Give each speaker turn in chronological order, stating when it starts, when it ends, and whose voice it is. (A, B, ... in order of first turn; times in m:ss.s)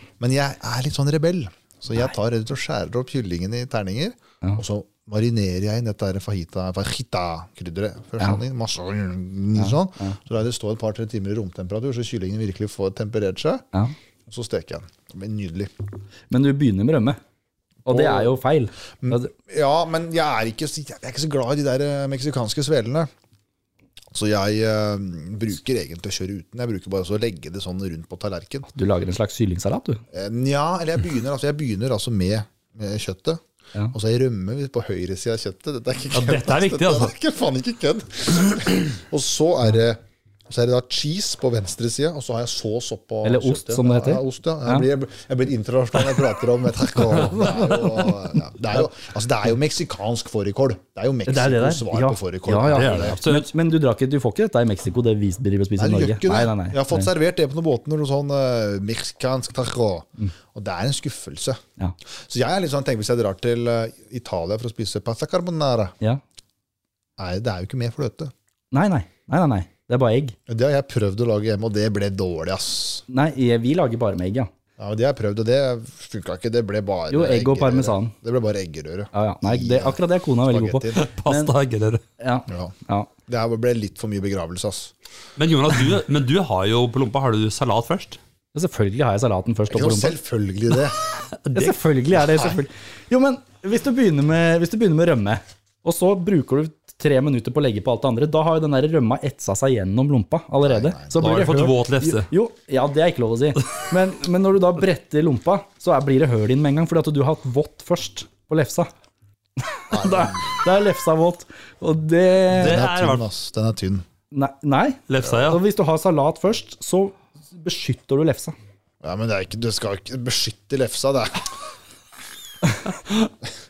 0:00.2-0:13.6 A
0:09.6-0:10.2 B
0:14.3-0:15.7 A
0:16.3-0:17.2 B
0:17.9-0:19.3 B
0:17.9-0:18.4 A
0:19.0-0:23.1 A
0:24.1-0:28.7 A
0:28.8-0:30.0 B
0:30.1-0:33.4 A
0:33.9-0:53.2 A
0:36.1-0:37.1 C
0:43.2-0:44.8 B
0:51.3-0:57.1 B
0:52.7-0:53.5 C
0:55.8-1:01.6 A
1:02.3-1:06.0 A
1:07.2-1:08.3 A
1:08.7-1:10.4 B
1:10.5-1:13.0 A
1:13.1-1:14.5 B
1:14.8-1:21.0 A
1:17.1-1:18.1 B
1:19.1-1:21.5 B
1:20.9-1:22.0 C
1:22.2-1:23.1 B
1:22.5-1:22.7 A
1:23.3-1:24.9 A
1:25.4-1:28.2 C
1:28.5-1:30.2 B
1:29.7-1:31.0 A
1:31.4-1:31.8 C
1:31.5-1:48.9 B
1:40.6-1:41.2 A
1:41.2-1:42.3 C
1:49.6-1:52.8 B
1:49.9-1:50.6 A
1:52.5-1:53.3 C
1:52.5-1:54.1 A
1:54.3-1:58.6 B
1:55.1-1:55.6 C
1:59.0-2:01.5 A